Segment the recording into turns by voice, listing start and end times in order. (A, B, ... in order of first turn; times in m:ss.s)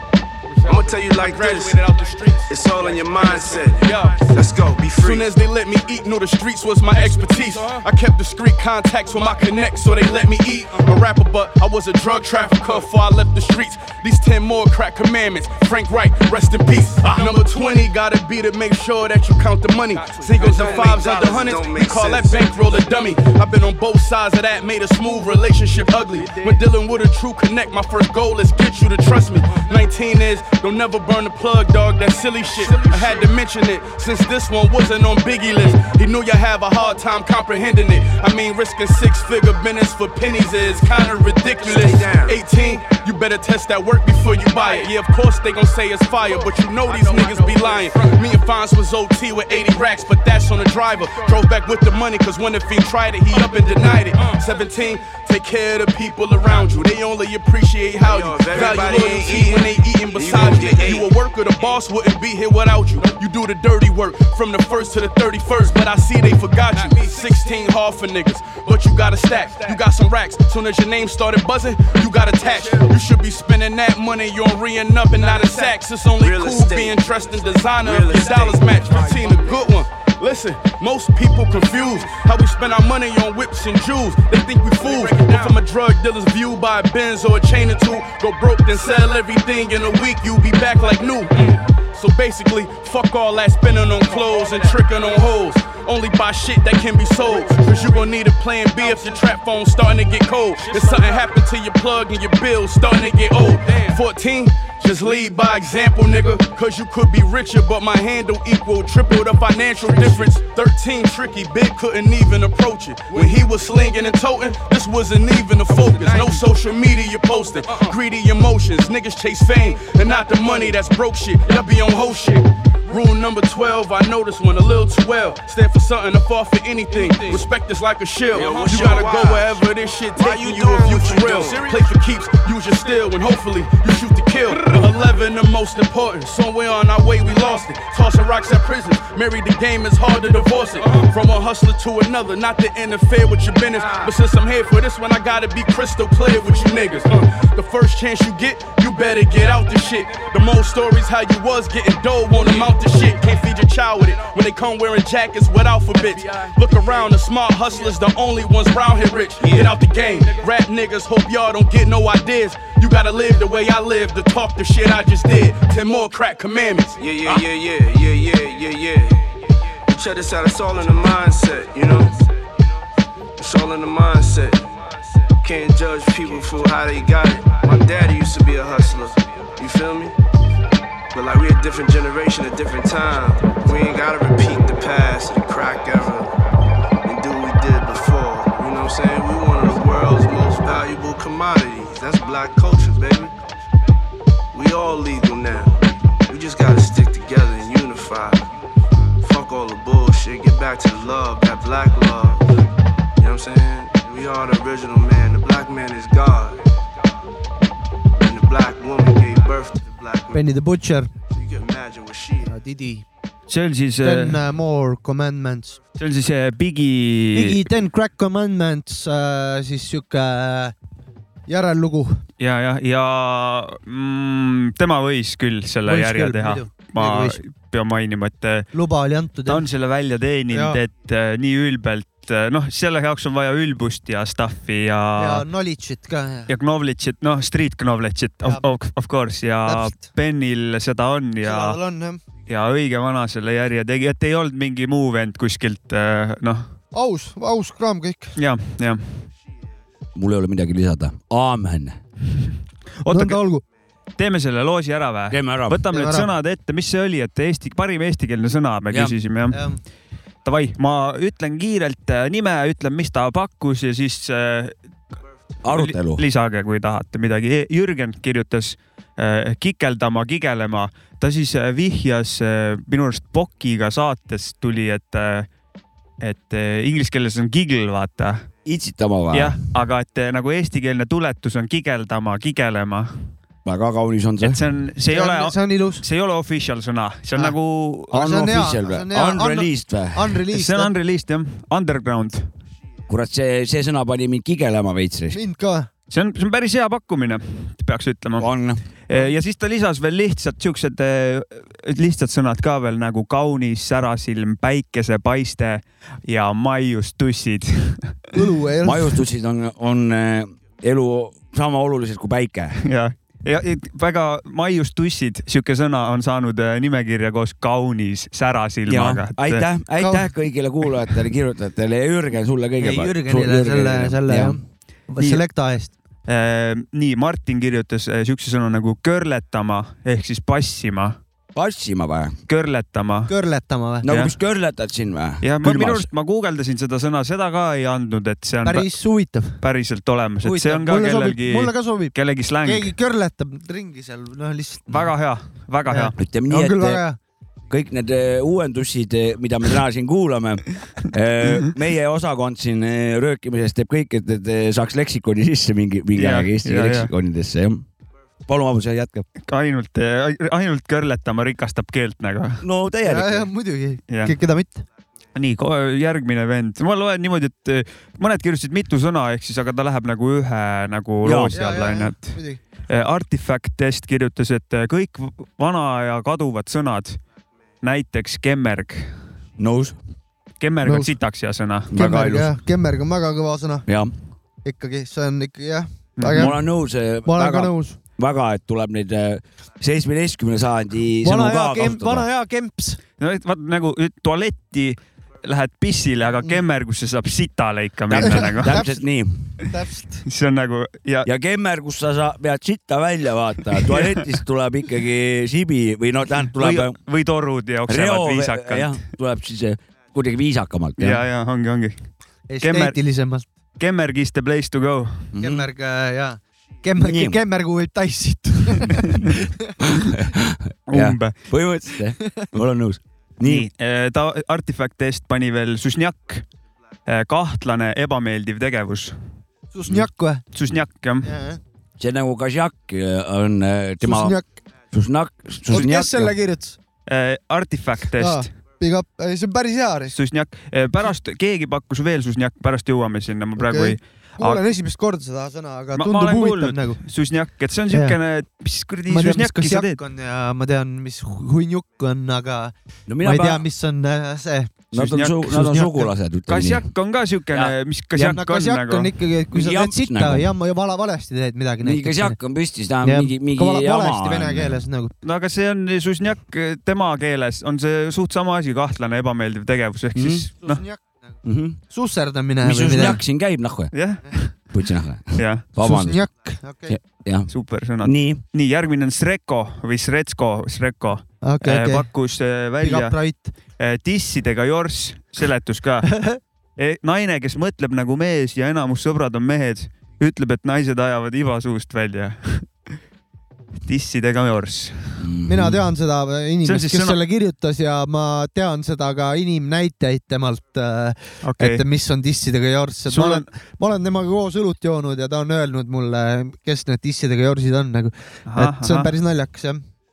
0:00.6-0:04.4 A
0:00.6-0:01.8 B
0:02.5-0:05.3 B
0:05.0-2:47.4 A
0:17.1-0:17.7 B
0:20.1-0:22.8 B
0:26.2-0:26.6 B
0:32.4-0:33.3 B
0:41.5-0:42.6 B
0:46.9-0:47.9 B
0:58.0-1:01.1 B
1:12.4-1:12.8 B
1:15.3-1:17.0 B
1:17.7-1:19.7 B
1:24.8-1:25.6 B
1:40.7-1:41.2 B
1:55.7-1:56.3 B
2:00.3-2:00.7 B
2:06.9-2:07.4 B
2:08.3-2:11.9 B
2:23.8-2:24.1 B
2:32.4-2:32.7 B
2:39.4-2:39.8 B
2:47.0-2:52.3 B
2:53.4-3:00.1 B
3:01.1-3:06.3 B
3:07.0-3:13.3 B
3:14.5-3:18.4 B
3:19.2-3:22.5 B
3:23.2-3:26.6 B
3:28.2-3:30.4 B
3:30.3-3:31.1 C
3:31.3-3:32.5 B
3:32.5-3:33.0 C
3:33.5-3:34.4 D
3:34.0-3:35.8 C
3:36.0-3:37.6 D
3:37.3-3:40.7 C
3:41.5-3:42.2 C
3:42.4-3:48.7 D
3:45.8-3:47.4 C
3:48.7-3:49.6 C
3:49.4-3:55.4 D
3:50.5-3:50.8 C
3:55.2-3:56.5 C
3:56.5-4:01.8 D
3:58.4-3:58.7 C
3:59.6-4:00.0 C
4:01.4-4:02.2 C
4:02.5-4:06.7 D
4:06.9-4:08.3 C
4:08.4-4:09.0 D
4:10.1-4:12.0 E
4:13.0-4:13.4 D
4:13.1-4:13.6 C
4:14.2-4:19.6 D
4:15.3-4:15.8 E
4:15.9-4:16.3 C
4:18.9-4:19.2 E
4:19.5-4:19.8 C
4:20.4-4:24.7 D
4:25.6-4:26.2 E
4:25.7-4:35.5 D
4:36.2-4:38.4 D
4:38.6-4:39.5 E
4:39.3-4:43.1 D
4:43.6-4:44.6 E
4:44.4-4:48.2 D
4:45.1-4:46.0 C
4:48.1-4:50.9 C
4:48.1-4:50.4 E
4:50.5-4:52.5 D
4:53.1-4:55.4 E
4:55.3-4:55.9 C
4:56.1-4:58.5 D
4:58.4-4:58.8 E
4:59.1-5:08.3 D
5:08.3-5:09.2 C
5:08.8-5:12.8 E
5:12.8-5:19.7 D
5:18.9-5:24.6 E
5:20.0-5:20.3 C
5:22.8-5:25.9 C
5:26.2-5:31.2 D
5:31.5-5:32.4 E
5:32.5-5:33.3 D
5:33.3-5:34.1 C
5:34.0-5:36.1 E
5:34.1-5:34.3 D
5:35.4-5:38.9 D
5:38.6-5:39.6 C
5:39.6-5:42.9 D
5:40.4-5:45.1 C
5:44.9-5:46.2 D
5:45.9-5:47.2 C
5:46.2-5:47.0 E
5:47.7-5:57.8 E
5:56.2-5:57.1 D
5:58.5-5:59.2 E
5:59.4-6:02.6 D
6:02.6-6:03.5 E
6:03.0-6:04.8 C
6:04.1-6:04.3 D
6:05.3-6:12.4 D
6:11.2-6:11.6 E
6:11.5-6:12.6 C
6:12.9-6:17.2 D
6:17.8-6:19.1 D
6:19.6-6:20.0 E
6:20.6-6:21.9 D
6:20.8-6:21.1 C
6:21.9-6:22.5 E
6:21.9-6:23.8 C
6:23.9-6:24.1 E
6:24.6-6:26.6 C
6:26.2-6:26.5 D
6:26.3-6:32.3 E
6:27.2-6:28.0 C
6:31.2-6:33.0 C
6:33.2-6:38.8 D
6:38.1-6:39.4 E
6:38.2-6:38.9 C
6:39.6-6:40.2 C
6:40.2-6:41.3 D
6:41.2-6:47.0 E
6:43.9-6:44.2 D
6:46.6-6:49.0 D
6:47.9-6:51.2 E
6:51.0-6:52.0 D
6:52.5-6:53.5 C
6:52.6-6:53.0 D
6:53.8-6:55.3 D
6:55.3-6:55.7 E
6:55.4-6:59.5 C
6:57.0-6:57.4 E
6:59.8-7:03.7 E
7:00.9-7:01.4 D
7:02.2-7:02.5 C
7:03.4-7:06.4 D
7:07.1-7:09.2 D
7:09.7-7:10.4 C
7:10.5-7:11.3 D
7:11.2-7:11.6 C
7:12.0-7:14.4 E
7:14.0-7:14.5 C
7:14.9-7:16.3 E
7:15.7-7:16.8 C
7:17.1-7:18.5 D
7:18.2-7:20.1 C
7:20.1-7:24.6 D
7:23.6-7:27.0 C
7:25.9-7:30.0 D
7:27.9-7:28.2 C
7:29.1-7:34.8 C
7:33.1-7:33.6 E
7:34.9-7:36.8 E
7:34.9-7:35.6 D
7:35.5-7:36.1 C
7:36.5-7:39.1 D
7:38.2-7:42.4 C
7:39.5-7:40.5 E
7:41.8-7:44.8 E
7:43.0-7:45.1 C
7:45.2-7:50.8 D
7:50.1-7:50.4 E
7:50.6-7:51.2 C
7:51.4-7:51.8 E
7:51.9-7:53.2 C
7:52.6-7:53.9 E
7:53.9-7:54.6 D
7:54.7-7:56.2 E
7:55.4-7:55.7 D
7:55.8-7:57.0 C
7:56.9-7:57.5 E
7:57.5-8:03.2 D
7:58.0-7:58.4 E
8:01.4-8:02.1 C
8:02.8-8:03.5 C
8:03.8-8:06.1 D
8:06.1-8:06.4 C
8:06.8-8:12.7 D
8:13.8-8:15.2 D
8:15.2-8:15.8 E
8:15.5-8:29.8 C
8:16.6-8:17.2 D
8:21.4-8:21.8 D
8:23.1-8:23.4 D
8:28.5-8:29.1 D